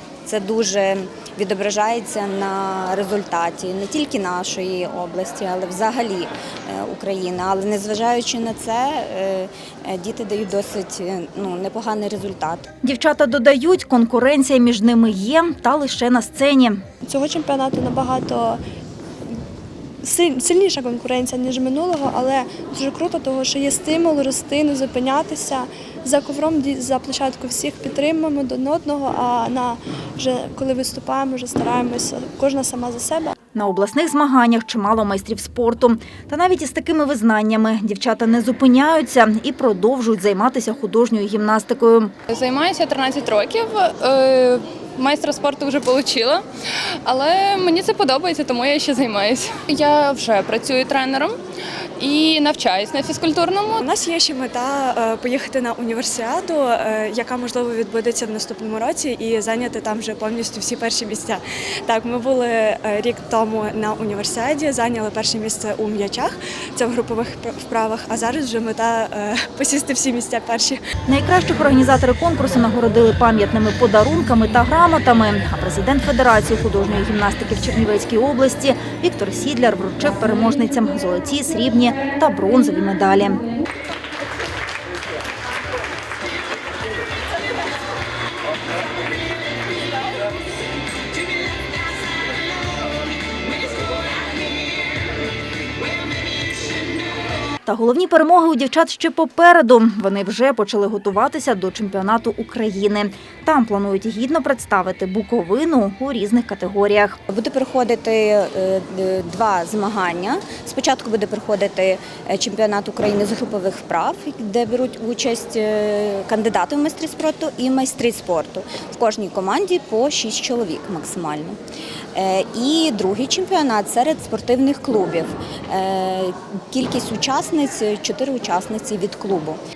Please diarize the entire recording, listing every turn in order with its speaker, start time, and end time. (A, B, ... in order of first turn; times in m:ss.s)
0:00.2-0:12.7 A
0:12.8-0:16.8 B
0:17.1-0:18.6 C
0:20.1-0:33.3 C
0:33.6-0:42.1 B
0:42.3-0:46.4 D
0:47.0-0:51.4 D
0:52.0-0:53.8 D
0:53.8-1:10.8 E
1:11.1-1:23.4 B
1:37.6-1:47.2 B
1:47.3-2:01.6 A
2:02.1-2:09.6 A